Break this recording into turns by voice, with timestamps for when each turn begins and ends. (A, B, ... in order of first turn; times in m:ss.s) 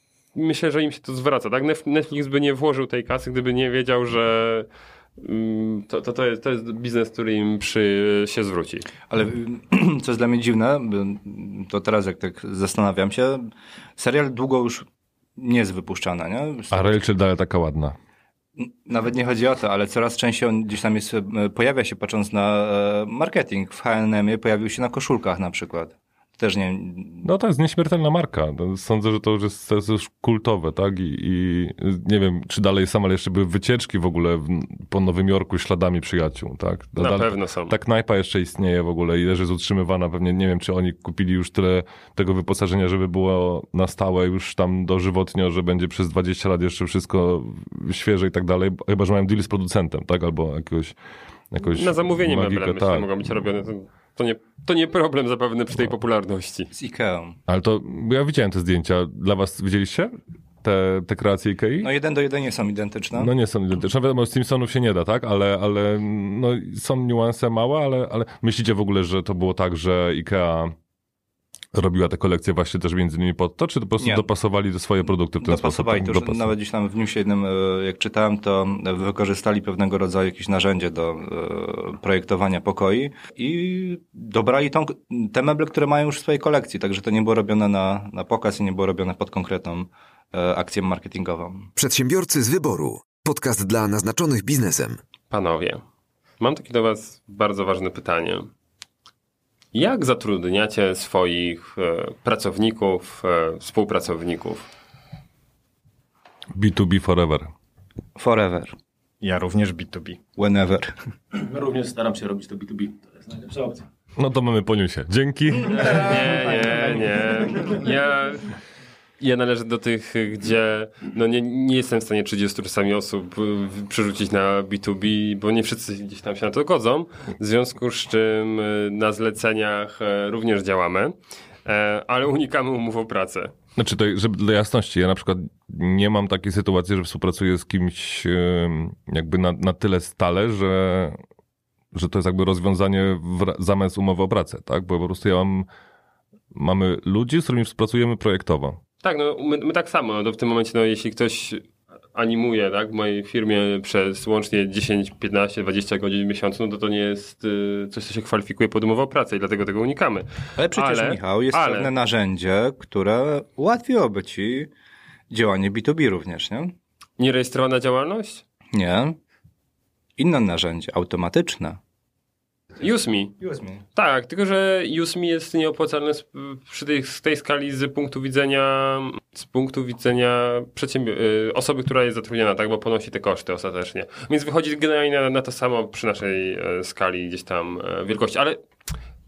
0:00.3-0:08.8 A
0:09.1-0:13.5 B
0:14.0-0:14.8 B
0:15.4-0:17.0 B
0:16.7-0:17.9 C
0:18.6-0:27.2 B
0:27.2-0:50.9 C
0:37.0-0:37.7 A
0:51.5-0:53.1 C
0:51.6-0:56.7 A
0:56.7-0:57.4 B
0:57.5-1:00.1 C
1:00.6-1:01.9 C
1:01.8-1:03.3 B
1:03.2-1:10.7 C
1:11.7-1:16.5 C
1:14.0-1:14.3 B
1:15.3-1:31.7 B
1:31.8-1:35.0 D
1:35.3-1:35.8 A
1:36.4-1:38.5 A
1:39.7-1:44.7 A
1:46.5-1:47.5 C
1:48.2-1:48.7 B
1:49.2-1:50.2 E
1:50.4-1:50.9 B
1:51.3-1:53.8 F
1:54.2-1:56.4 C
1:55.7-1:58.5 A
1:56.2-1:57.7 E
1:59.2-2:13.5 A
2:13.8-2:21.2 C
2:21.9-2:25.7 C
2:26.5-2:28.8 C
2:29.0-2:41.9 A
2:40.6-2:44.7 B
2:45.3-2:46.7 B
2:47.2-2:48.4 A
2:48.7-2:49.2 B
2:50.2-2:51.8 B
2:52.8-2:53.4 A
2:53.4-2:53.8 B
2:54.0-3:08.6 A